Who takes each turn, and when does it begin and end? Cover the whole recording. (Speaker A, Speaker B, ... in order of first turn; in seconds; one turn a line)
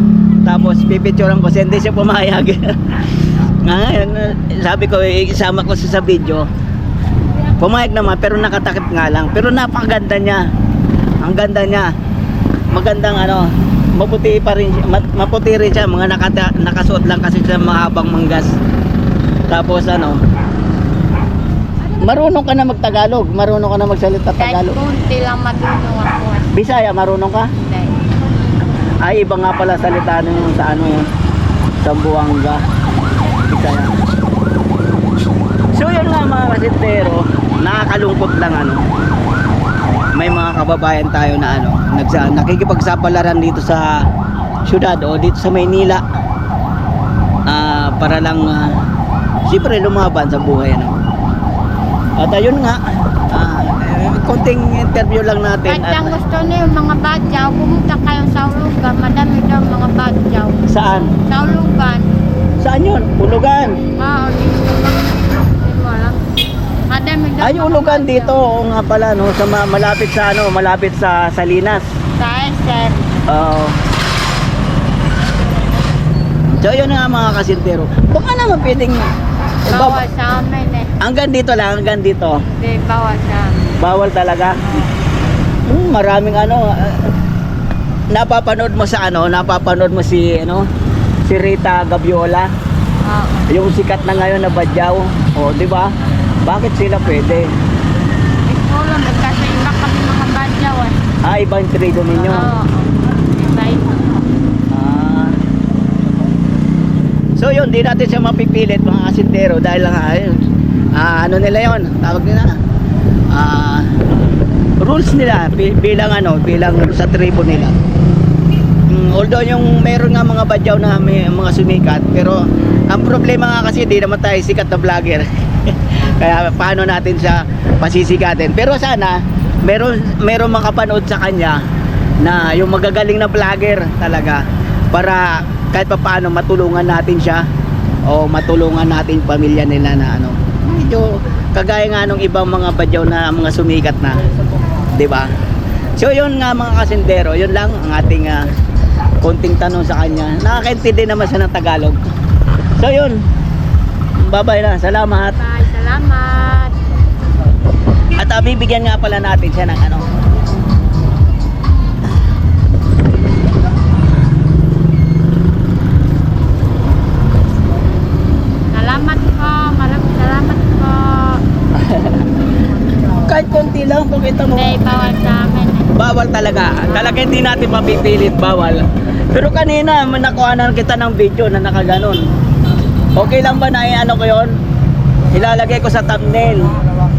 Speaker A: 0.4-6.5
Speaker A: 7.6-10.4
Speaker A: 11.2-11.9
Speaker A: 12.7-18.5
Speaker A: 19.5-20.2
Speaker A: 22.0-24.8
Speaker B: 24.4-26.5
Speaker A: 26.5-27.5
Speaker B: 27.6-27.9
Speaker A: 29.0-31.0
Speaker A: 31.8-32.6
Speaker A: 33.4-33.9
Speaker A: 35.7-38.8
Speaker A: 40.1-44.0
Speaker A: 44.6-46.0
Speaker A: 47.5-48.7
Speaker A: 49.5-51.0
Speaker A: 52.2-56.2
Speaker B: 55.6-62.1
Speaker A: 60.7-61.1
Speaker A: 62.6-63.8
Speaker B: 64.0-66.2
Speaker B: 66.9-68.4
Speaker A: 67.4-71.8
Speaker B: 72.2-73.2
Speaker A: 73.3-73.8
Speaker A: 76.5-79.0
Speaker A: 79.7-80.0
Speaker B: 79.7-80.9
Speaker A: 81.0-82.4
Speaker B: 82.5-83.6
Speaker A: 83.8-84.6
Speaker B: 84.6-84.9
Speaker A: 85.7-87.1
Speaker A: 88.1-90.7
Speaker A: 91.2-92.5
Speaker B: 93.0-93.5
Speaker A: 93.5-95.9
Speaker A: 96.4-97.5
Speaker B: 98.4-101.0
Speaker A: 101.2-102.5
Speaker B: 102.1-104.2
Speaker A: 104.7-105.4
Speaker A: 107.3-110.4
Speaker A: 110.9-112.5
Speaker A: 113.3-113.9
Speaker A: 114.8-117.7
Speaker A: 118.9-131.6
Speaker A: 132.2-134.4
Speaker A: 134.9-137.4
Speaker A: 138.1-144.2
Speaker A: 144.9-145.3
Speaker A: 146.0-148.5
Speaker A: 149.2-152.0
Speaker A: 152.8-153.2
Speaker A: 154.2-155.4
Speaker B: 155.1-156.8
Speaker A: 158.2-160.1
Speaker B: 168.7-171.4
Speaker A: 171.7-172.2
Speaker A: 173.2-174.8
Speaker B: 174.5-175.9
Speaker A: 175.9-182.2
Speaker B: 176.8-177.3
Speaker A: 183.2-184.5
Speaker A: 185.3-186.7